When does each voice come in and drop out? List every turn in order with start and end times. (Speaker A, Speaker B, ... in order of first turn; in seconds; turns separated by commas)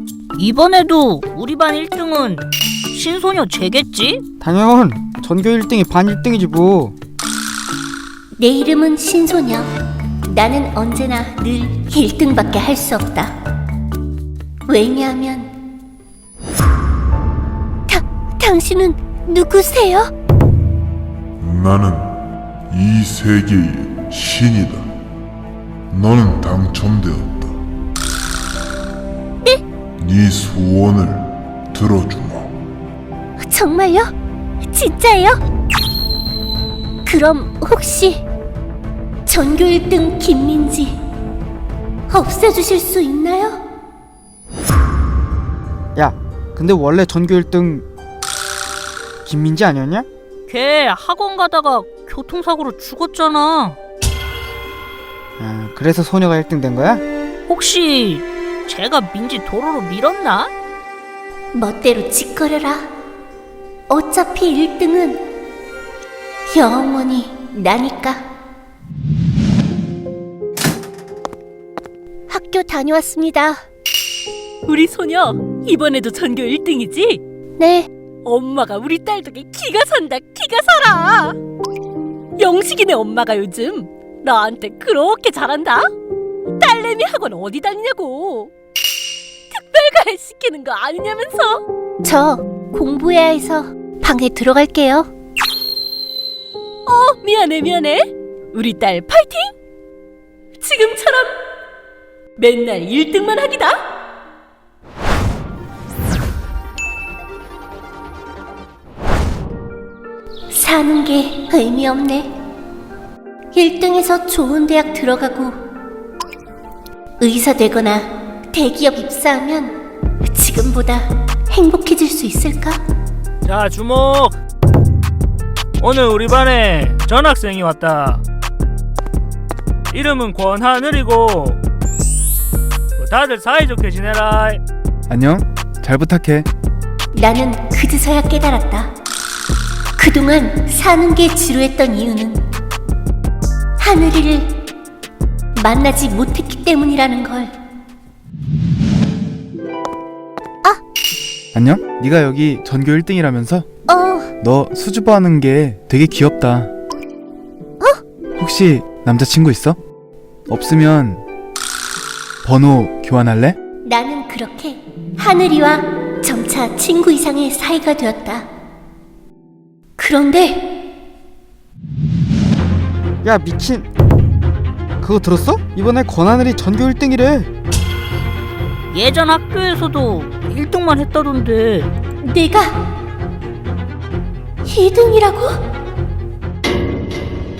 Speaker A: 0.4-4.2, Speaker B: 4.4-7.0, Speaker C: 8.4-9.7, Speaker C: 10.3-13.3, Speaker C: 14.7-15.5, Speaker C: 17.9-20.1, Speaker D: 21.4-22.1, Speaker D: 22.7-24.9, Speaker D: 25.9-27.6, Speaker D: 30.0-32.5, Speaker C: 33.4-34.1, Speaker C: 34.7-35.4, Speaker C: 37.0-38.2, Speaker C: 39.3-41.0, Speaker C: 42.1-43.6, Speaker B: 46.0-47.9, Speaker B: 49.2-50.1, Speaker A: 50.5-53.8, Speaker B: 55.4-57.0, Speaker A: 57.5-60.5, Speaker C: 61.5-62.8, Speaker C: 63.9-65.2, Speaker C: 66.5-68.2, Speaker C: 72.3-73.6, Speaker E: 74.7-77.2, Speaker C: 77.6-77.9, Speaker E: 78.2-81.4, Speaker E: 82.4-85.9, Speaker E: 86.6-88.5, Speaker E: 89.5-91.6, Speaker C: 92.0-95.1, Speaker E: 96.9-99.5, Speaker E: 100.6-101.3, Speaker E: 102.4-103.8, Speaker C: 110.5-112.3, Speaker C: 113.5-115.6, Speaker C: 117.2-122.8, Speaker F: 123.5-124.4, Speaker F: 125.8-128.2, Speaker F: 129.9-131.6, Speaker F: 133.0-134.6, Speaker G: 135.1-136.5, Speaker C: 137.1-138.9, Speaker C: 140.0-142.5, Speaker C: 143.8-144.6, Speaker C: 145.6-147.5, Speaker G: 151.5-153.7, Speaker C: 153.9-154.3, Speaker G: 154.4-156.7, Speaker G: 158.4-159.8, Speaker G: 160.5-161.2, Speaker G: 162.4-163.6, Speaker C: 163.8-168.5, Speaker C: 170.0-170.8, Speaker B: 173.2-173.9, Speaker B: 175.0-177.5, Speaker A: 178.9-181.9, Speaker C: 182.2-182.8, Speaker C: 184.7-185.6